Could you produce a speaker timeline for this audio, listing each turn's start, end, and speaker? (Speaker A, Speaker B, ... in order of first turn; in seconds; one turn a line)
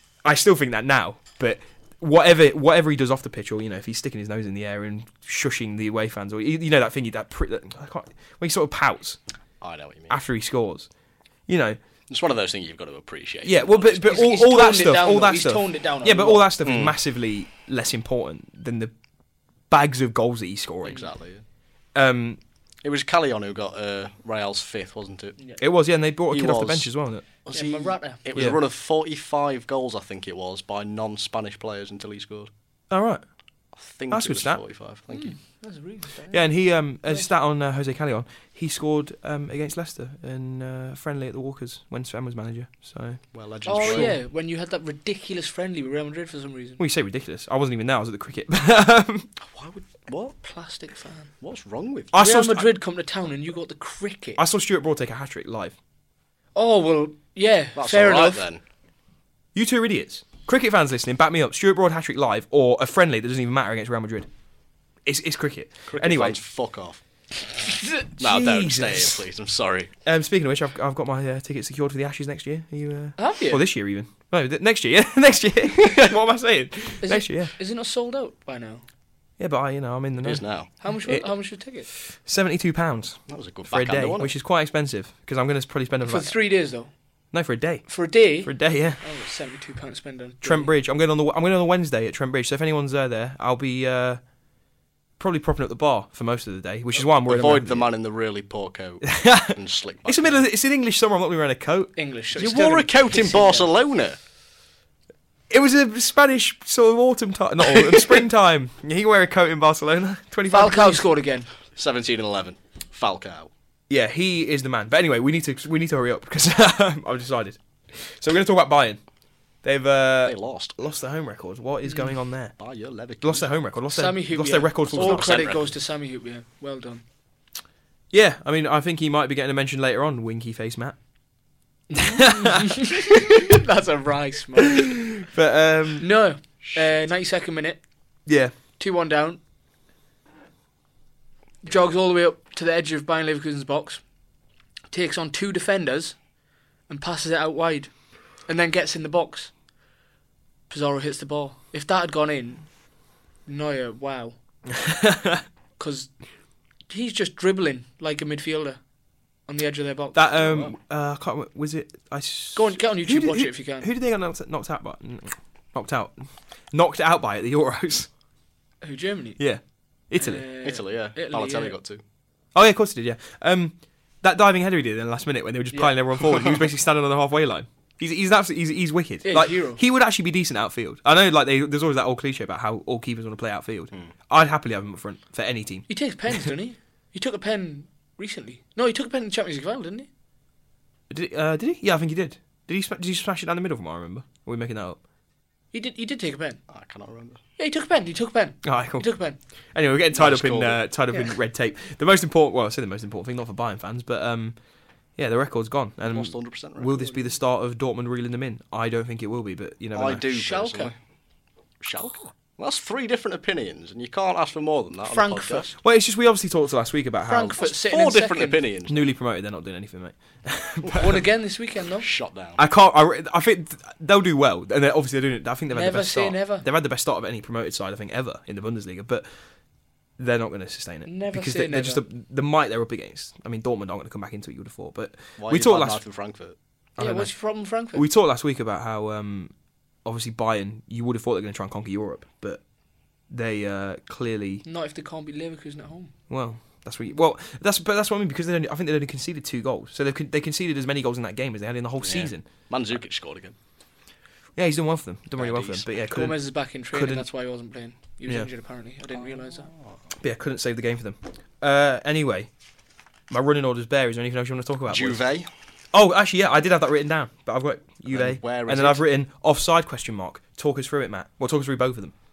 Speaker A: 0.2-9.2
Speaker B: 9.6-10.2
Speaker A: 10.1-10.9
Speaker A: 11.5-11.8
Speaker B: 12.1-14.3
Speaker A: 13.4-18.9
Speaker C: 14.1-16.5
Speaker B: 16.6-16.9
Speaker A: 19.7-21.1
Speaker B: 20.9-21.4
Speaker A: 21.9-22.4
Speaker B: 22.8-25.4
Speaker A: 25.6-27.2
Speaker B: 26.3-32.5
Speaker C: 27.5-28.2
Speaker A: 32.9-33.2
Speaker B: 33.7-35.4
Speaker A: 34.1-34.6
Speaker C: 35.1-36.5
Speaker A: 36.3-44.2
Speaker C: 37.0-37.3
Speaker B: 43.3-44.1
Speaker C: 43.6-46.8
Speaker A: 46.8-49.3
Speaker B: 49.4-50.4
Speaker C: 50.4-51.3
Speaker B: 51.4-52.1
Speaker A: 52.1-52.7
Speaker C: 52.1-54.4
Speaker A: 54.4-55.8
Speaker C: 56.5-58.4
Speaker B: 57.8-58.6
Speaker A: 59.5-64.3
Speaker A: 65.0-66.4
Speaker B: 65.9-67.0
Speaker A: 68.2-69.2
Speaker B: 68.2-69.9
Speaker A: 70.0-77.5
Speaker C: 73.2-73.6
Speaker C: 77.0-78.8
Speaker A: 79.4-86.5
Speaker B: 80.2-80.8
Speaker C: 80.8-81.9
Speaker B: 83.3-84.3
Speaker C: 86.0-86.9
Speaker A: 87.3-89.0
Speaker C: 87.9-90.7
Speaker A: 90.4-94.3
Speaker A: 95.2-97.9
Speaker B: 97.0-100.5
Speaker A: 99.1-102.0
Speaker C: 102.0-103.7
Speaker B: 102.4-104.2
Speaker A: 105.5-111.1
Speaker C: 110.5-111.5
Speaker B: 111.7-113.5
Speaker A: 113.9-119.0
Speaker A: 119.6-122.6
Speaker B: 120.2-120.8
Speaker C: 121.8-122.2
Speaker B: 122.6-123.6
Speaker A: 123.2-125.5
Speaker C: 123.9-127.0
Speaker B: 124.9-125.7
Speaker A: 128.1-131.0
Speaker C: 131.9-135.1
Speaker A: 132.2-132.9
Speaker A: 135.1-136.1
Speaker C: 136.0-137.8
Speaker A: 138.3-138.6
Speaker C: 138.8-139.4
Speaker C: 141.6-144.0
Speaker C: 144.9-146.2
Speaker C: 146.9-149.5
Speaker C: 150.7-152.8
Speaker C: 153.4-154.4
Speaker A: 154.8-155.4
Speaker C: 155.8-156.2
Speaker C: 156.9-158.8
Speaker C: 159.4-160.7
Speaker A: 160.2-168.1
Speaker C: 162.6-163.9
Speaker C: 168.8-169.5
Speaker A: 169.4-170.4
Speaker C: 170.1-171.8
Speaker B: 170.6-172.0
Speaker A: 172.5-185.9
Speaker C: 175.7-176.0
Speaker C: 179.2-179.8
Speaker C: 185.9-190.1
Speaker A: 191.1-195.0
Speaker C: 195.7-196.6
Speaker B: 196.7-197.4
Speaker C: 197.6-199.4
Speaker A: 198.6-199.1
Speaker A: 199.7-204.6
Speaker B: 200.1-200.8
Speaker A: 205.2-210.2
Speaker B: 206.1-207.1
Speaker B: 209.9-210.9
Speaker C: 210.3-210.9
Speaker B: 211.8-215.7
Speaker C: 215.1-215.7
Speaker A: 215.8-217.6
Speaker C: 217.3-218.6
Speaker B: 217.6-219.1
Speaker A: 218.9-221.2
Speaker C: 220.9-222.1
Speaker B: 222.0-222.6
Speaker A: 222.6-229.3
Speaker C: 225.7-226.7
Speaker A: 230.2-236.0
Speaker C: 231.1-232.0
Speaker B: 235.4-236.6
Speaker A: 237.0-237.3
Speaker C: 237.0-238.1
Speaker A: 237.9-242.6
Speaker A: 243.3-244.7
Speaker C: 244.7-246.2
Speaker A: 246.3-252.7
Speaker B: 252.0-253.6
Speaker A: 254.6-256.4
Speaker B: 255.4-255.9
Speaker C: 256.1-259.7
Speaker A: 256.9-257.3
Speaker B: 259.2-260.0
Speaker A: 260.2-262.5
Speaker A: 263.3-265.2
Speaker B: 264.9-265.5
Speaker A: 265.9-272.1
Speaker B: 268.1-269.0